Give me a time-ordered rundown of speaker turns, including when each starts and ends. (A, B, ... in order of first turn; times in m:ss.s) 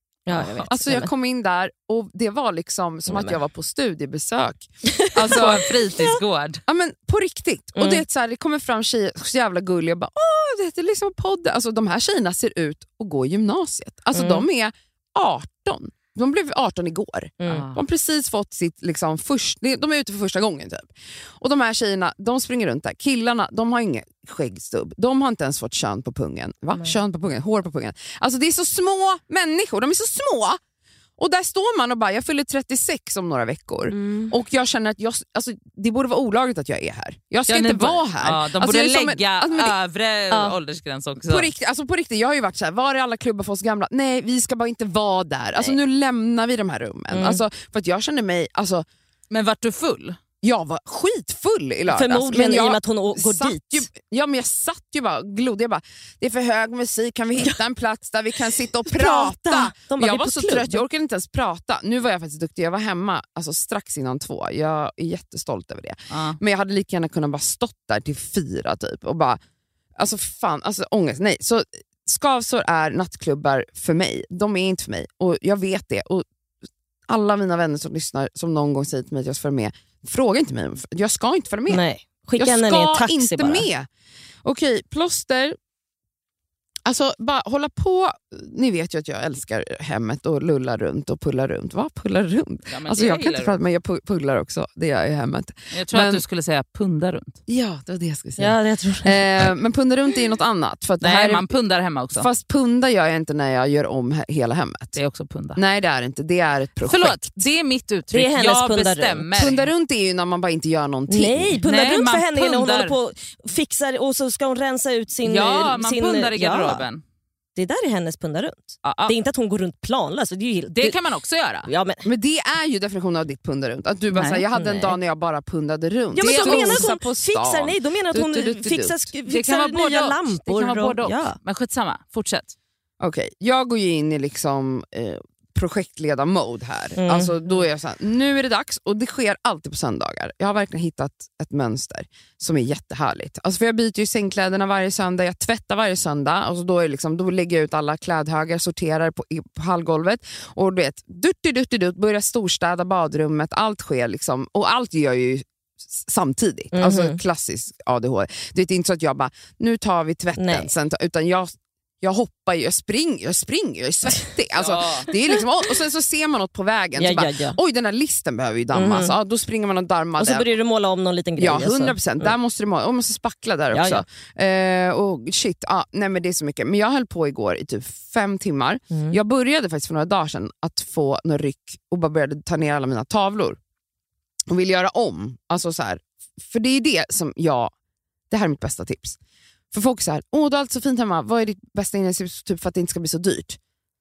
0:00.3-0:01.1 A
0:00.3-0:00.7 B
0:00.7-0:05.7 C
0:03.1-0:03.4 A
0:04.9-0:06.2 A
0:05.3-0:06.6 B
0:06.7-0:30.6 C
0:07.8-0:08.0 A
0:14.1-0:14.4 A
0:17.4-0:17.7 A
0:17.5-0:17.8 B
0:31.2-0:39.7 C
0:33.9-0:34.3 A
0:37.5-0:41.5 B
0:41.2-0:48.9 C
0:47.1-0:47.4 A
0:49.3-0:50.2 B
0:50.4-1:09.4 C
0:51.9-0:53.9 A
0:58.9-1:00.8 A
1:06.1-1:06.4 B
1:10.0-1:16.2 C
1:17.1-1:21.8 C
1:21.7-1:23.7 A
1:22.4-1:23.9 C
1:24.4-1:25.6 C
1:26.8-1:36.2 C
1:32.7-1:33.6 B
1:35.7-1:37.4 B
1:37.5-1:41.5 C
1:38.4-1:39.2 A
1:41.0-1:42.3 B
1:42.2-1:45.0 C
1:44.9-1:45.6 B
1:45.6-1:47.4 C
1:46.8-1:49.7 B
1:48.1-1:49.5 A
1:49.4-1:51.6 C
1:51.1-1:56.8 A
1:51.6-1:53.0 B
1:55.2-1:57.0 B
1:57.6-2:01.0 A
1:58.8-1:59.2 B
2:00.7-2:01.7 B
2:01.6-2:02.0 A
2:02.0-2:09.1 C
2:04.1-2:04.4 B
2:04.5-2:05.0 A
2:06.1-2:11.4 A
2:06.2-2:06.9 B
2:09.3-2:12.6 B
2:13.0-2:50.5 C
2:17.0-2:17.3 A
2:36.7-2:37.2 A
2:40.4-2:40.7 A
2:44.6-2:45.1 B
2:47.0-2:47.6 A
2:48.7-2:49.1 A
2:50.2-2:52.3 A
2:51.4-3:03.6 C
2:53.7-2:54.0 A
2:58.9-2:59.2 A
3:04.5-3:07.7 C
3:08.3-3:09.2 C
3:09.7-3:13.6 C